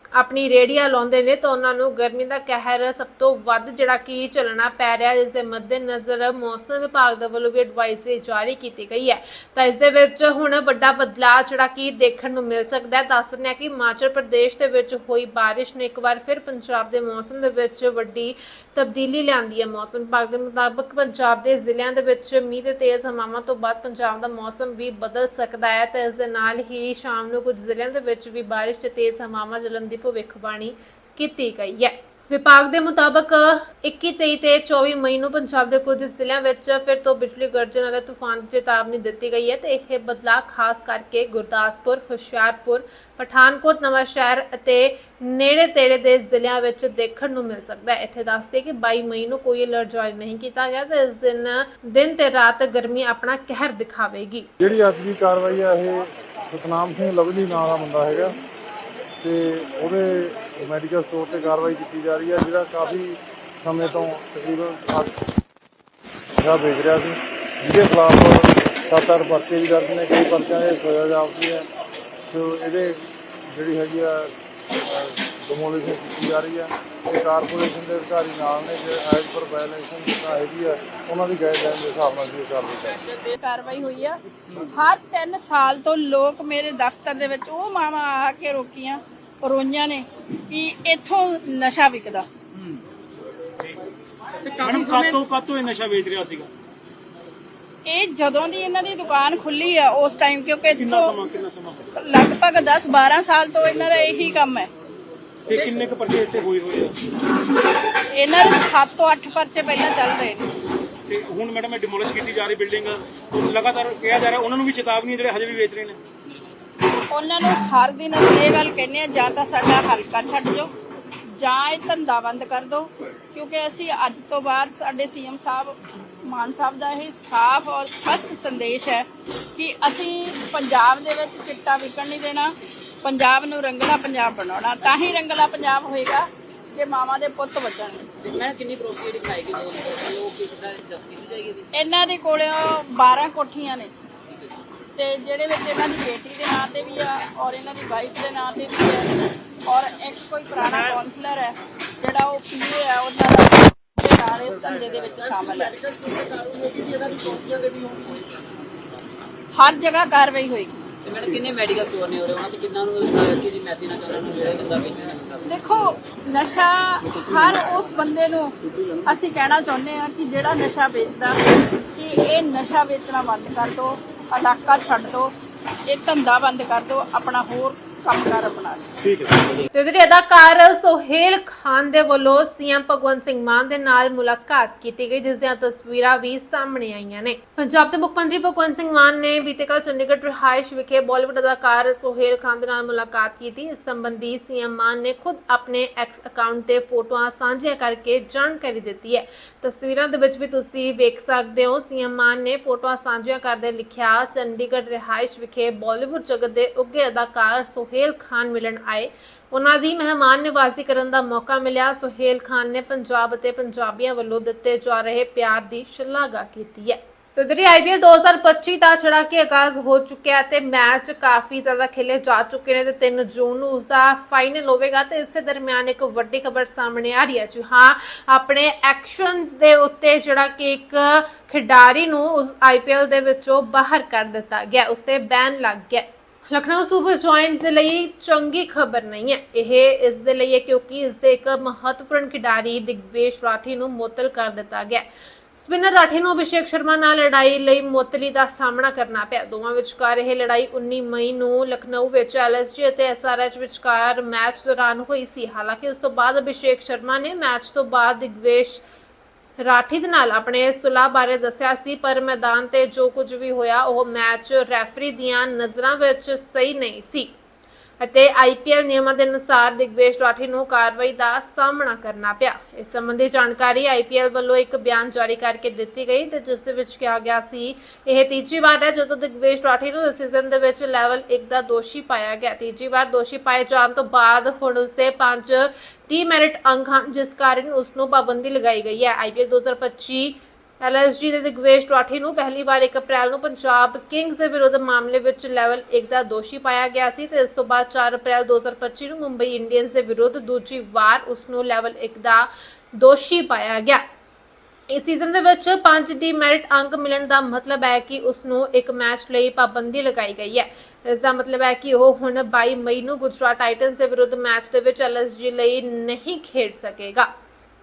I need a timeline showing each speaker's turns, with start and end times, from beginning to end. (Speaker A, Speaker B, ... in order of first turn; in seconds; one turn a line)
Speaker A: 0.1-54.5
Speaker B: 54.6-58.3
Speaker B: 59.2-65.1
Speaker B: 66.4-71.6
Speaker B: 72.3-74.3
Speaker B: 74.8-82.9
Speaker C: 83.1-92.2
Speaker D: 94.4-96.5
Speaker C: 94.5-95.1
Speaker C: 97.8-101.1
Speaker D: 100.7-101.8
Speaker C: 101.9-104.7
Speaker D: 105.5-106.9
Speaker C: 105.5-105.7
Speaker C: 108.1-110.5
Speaker D: 111.1-116.0
Speaker C: 117.1-120.7
Speaker C: 121.4-138.1
Speaker E: 138.2-141.7
Speaker C: 141.7-143.9
Speaker C: 144.9-149.1
Speaker C: 149.7-155.7
Speaker E: 155.2-158.6
Speaker C: 159.5-160.8
Speaker E: 161.0-165.4
Speaker C: 165.4-171.4
Speaker C: 171.9-175.3
Speaker C: 175.9-178.9
Speaker A: 179.7-245.0
Speaker A: 245.6-258.8
Speaker A: 259.6-267.3
Speaker A: 268.0-304.0
Speaker A: 304.9-317.3